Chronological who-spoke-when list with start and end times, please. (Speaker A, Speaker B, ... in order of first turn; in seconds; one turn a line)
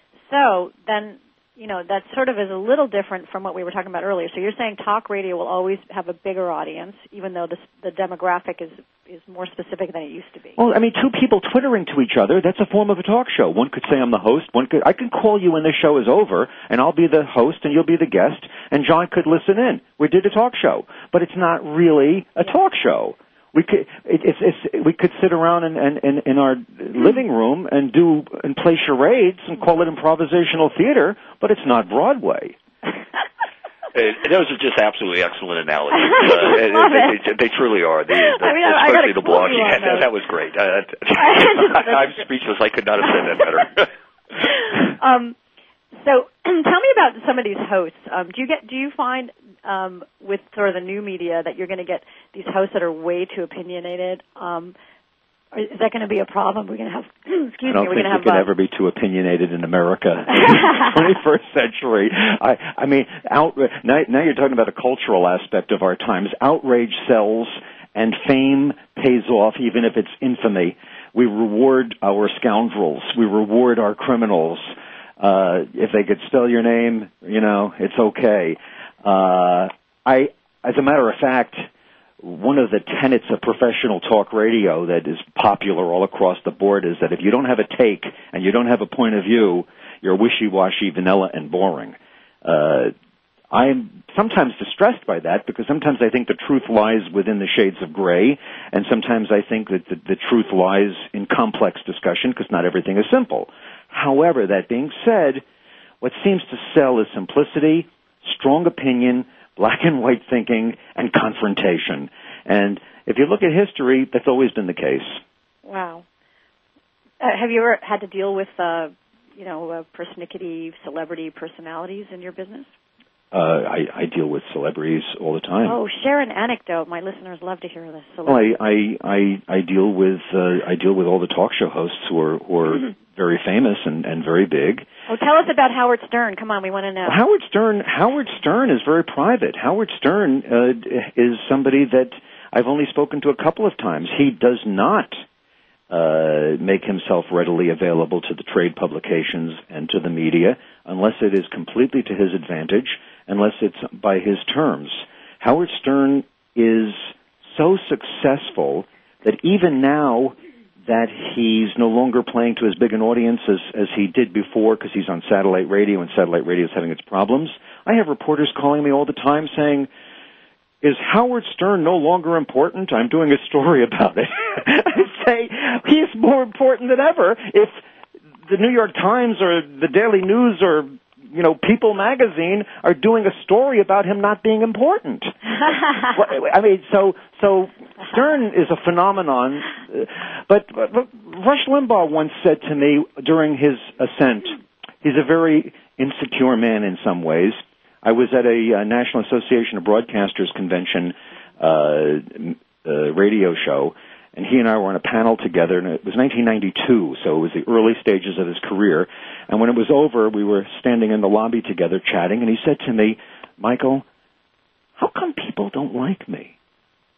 Speaker A: 0.3-10.6
Speaker B: 10.6-32.6
Speaker C: 33.9-43.9
Speaker A: 36.0-37.2
Speaker A: 38.1-40.1
Speaker A: 41.1-42.2
Speaker A: 44.9-45.4
Speaker A: 46.0-54.7
Speaker A: 55.5-58.5
Speaker B: 57.6-81.7
Speaker B: 82.2-92.9
Speaker B: 93.5-105.4
Speaker B: 106.0-115.2
Speaker A: 115.6-116.0
Speaker A: 117.2-122.7
Speaker B: 123.3-125.8
Speaker A: 125.6-128.5
Speaker B: 128.2-134.8
Speaker A: 135.1-137.2
Speaker B: 137.0-145.2
Speaker B: 145.9-169.9
Speaker B: 170.8-177.8
Speaker B: 178.4-185.3
Speaker B: 186.0-214.0
Speaker B: 215.0-216.5